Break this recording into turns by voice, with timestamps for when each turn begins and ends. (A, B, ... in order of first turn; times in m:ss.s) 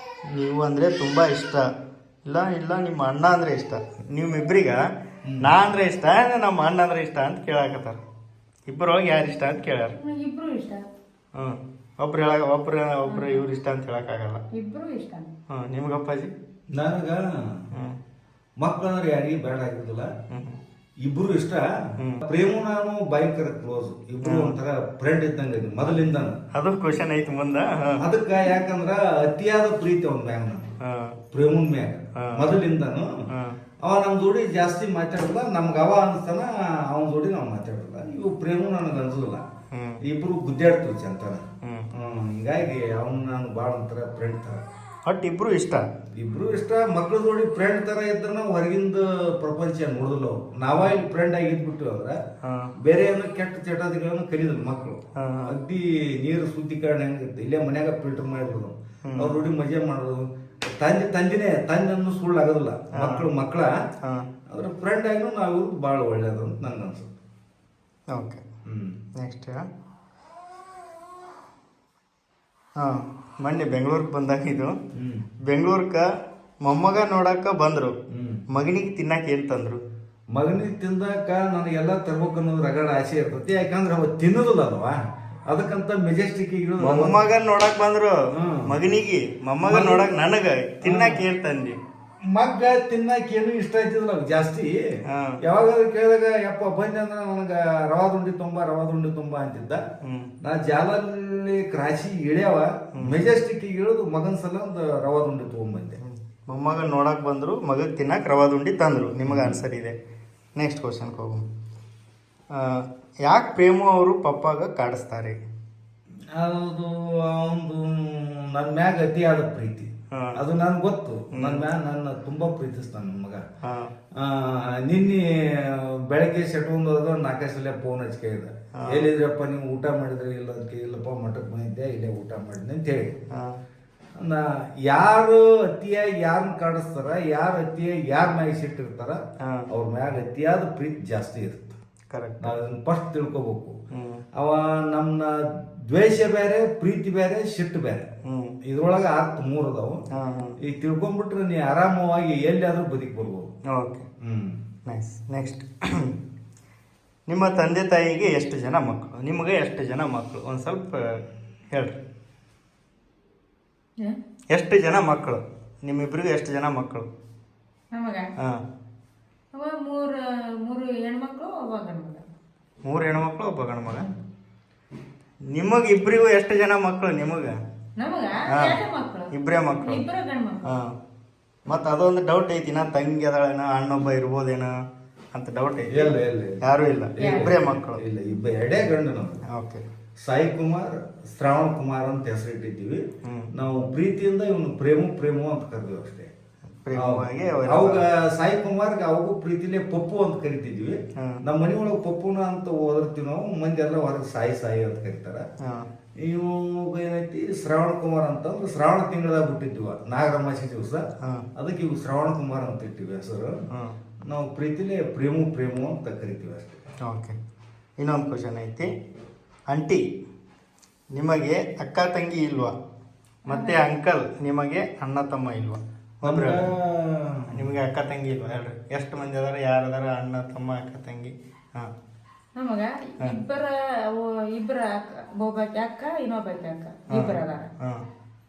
0:00.3-0:01.7 A
0:02.2-0:04.8 A
0:05.3-0:05.6 B
0:05.4-0:08.0 A
0:08.7-0:10.0 A
0:09.9-0:10.8 C
0:11.4-0:14.4 A
0:13.1-0:13.4 C
0:14.5-0:15.3 C
0:15.5-0:16.3 A
0:16.7-0:17.7 B
0:17.7-0:18.0 A
0:18.6-0:20.1 B
0:20.3-0:20.6 A
0:21.0-0:21.7 B
0:22.2-0:26.4 B
0:24.2-0:24.6 A
0:26.5-0:28.1 A
0:28.0-0:30.7 B
0:30.8-0:31.2 A
0:31.3-0:33.2 B
0:32.2-0:32.5 A
0:33.3-0:33.6 A
0:33.8-0:39.4 B
0:39.7-0:40.0 A
0:40.0-0:44.6 B
0:41.6-0:41.9 A
0:45.1-0:45.9 A
0:46.2-0:52.2 B
0:52.4-0:52.7 A
0:52.8-1:03.7 B
0:55.2-0:55.6 A
0:59.0-0:59.4 A
1:03.0-1:03.3 A
1:04.0-1:04.3 A
1:04.5-1:07.2 B
1:08.1-1:08.4 A
1:08.7-1:09.0 B
1:09.2-1:09.7 A
1:12.8-1:14.8 A
1:14.9-1:15.3 B
1:15.4-1:16.1 A
1:16.6-1:18.0 A
1:18.1-1:18.4 B
1:18.5-1:19.8 A
1:20.3-1:27.2 B
1:26.8-1:31.8 A
1:28.3-1:28.8 B
1:29.6-1:30.1 B
1:30.8-1:31.2 B
1:32.2-1:34.9 B
1:35.1-1:35.4 A
1:35.4-1:39.8 B
1:40.0-1:40.3 A
1:40.4-1:46.0 B
1:43.0-1:43.3 A
1:46.0-1:50.0 A
1:49.3-1:49.6 B
1:50.6-1:51.4 A
1:52.5-1:55.4 A
1:56.3-2:03.5 B
2:00.1-2:00.4 A
2:01.3-2:01.7 A
2:03.6-2:03.9 A
2:04.2-2:13.2 B
2:08.8-2:09.1 A
2:13.3-2:13.6 A
2:14.2-2:21.8 B
2:22.1-2:22.6 A
2:22.4-2:23.8 B
2:23.9-2:24.2 A
2:24.4-2:28.1 B
2:28.2-2:28.6 A
2:28.6-2:30.0 B
2:30.1-2:30.6 A
2:30.6-2:33.5 B
2:33.7-2:34.1 A
2:34.2-2:34.6 B
2:34.9-2:36.2 A
2:37.3-2:42.0 A
2:44.5-2:47.1 A
2:47.9-2:48.3 C
2:48.4-2:48.6 A
2:49.5-2:52.2 C
2:52.8-2:54.1 A
2:55.5-2:57.6 A
2:58.0-3:00.7 C
2:58.5-2:58.8 A
2:59.3-3:00.0 A
3:00.6-3:01.0 A
3:01.7-3:04.8 A
3:05.3-3:08.0 A
3:05.9-3:09.4 B
3:07.2-3:07.5 C
3:09.5-3:09.9 A
3:10.2-3:16.3 B
3:13.2-3:13.5 A
3:16.8-3:18.0 A
3:17.0-3:25.5 B
3:21.2-3:21.4 A
3:25.6-3:25.9 A
3:26.2-3:33.6 B
3:31.2-3:31.5 A
3:33.7-3:34.0 A
3:34.3-3:36.8 B
3:37.0-3:37.4 A
3:38.0-3:38.9 A
3:39.7-3:40.0 A
3:41.1-3:42.8 A
3:43.5-3:46.7 A
3:43.5-3:43.8 C
3:46.2-3:47.7 B
3:47.5-3:51.9 A
3:52.6-3:57.7 C
3:57.1-3:58.1 A